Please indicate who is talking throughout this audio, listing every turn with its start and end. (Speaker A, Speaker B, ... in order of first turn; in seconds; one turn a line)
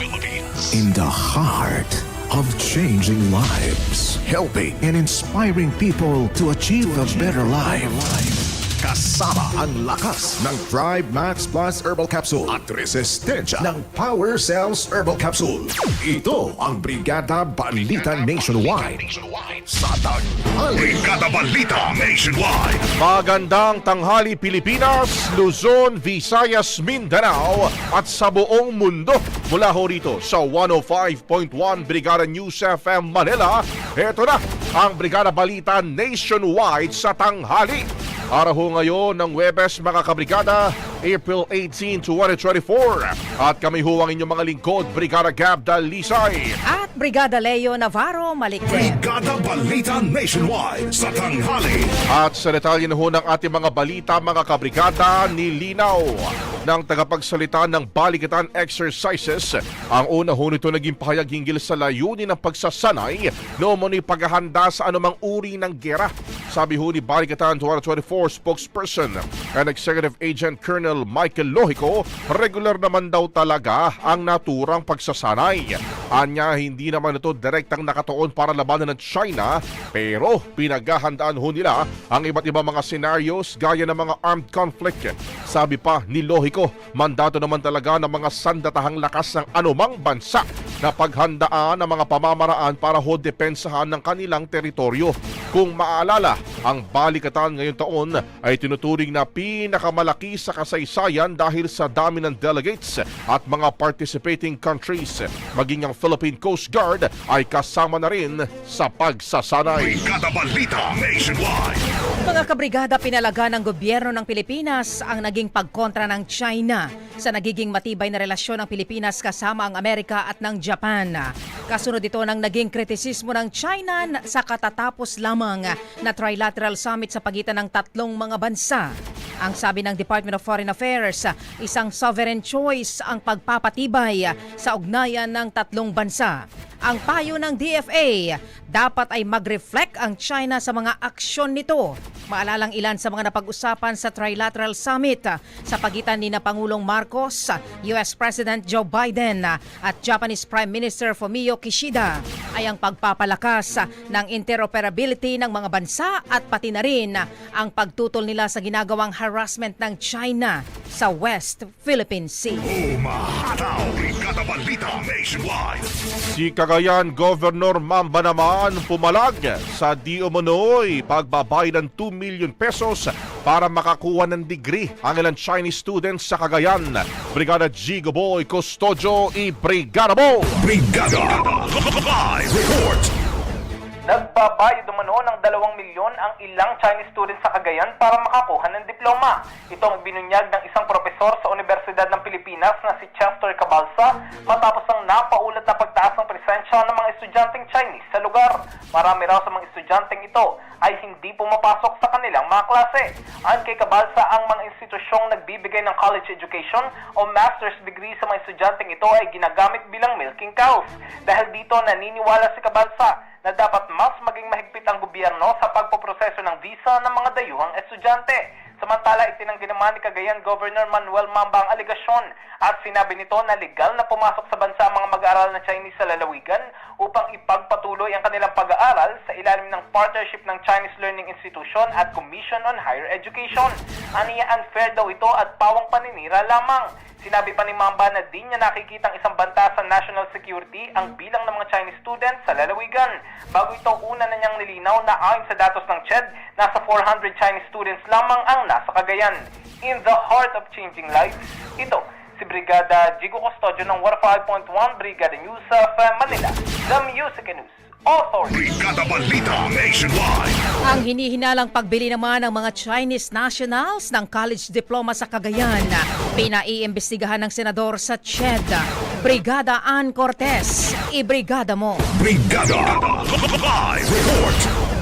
Speaker A: 0.7-19.0
Speaker A: 19.6-21.1
Speaker B: 20.8-22.8
Speaker C: 23.0-46.5
Speaker D: 46.7-49.0
Speaker B: 48.7-51.9
Speaker C: 52.1-110.0
Speaker B: 109.8-111.8
Speaker D: 112.2-162.7
Speaker B: 162.6-165.9
Speaker C: 166.3-180.5
Speaker B: 180.6-183.1
Speaker E: 184.1-258.6
Speaker B: 258.5-260.6
Speaker D: 260.8-272.0
Speaker B: 272.1-274.7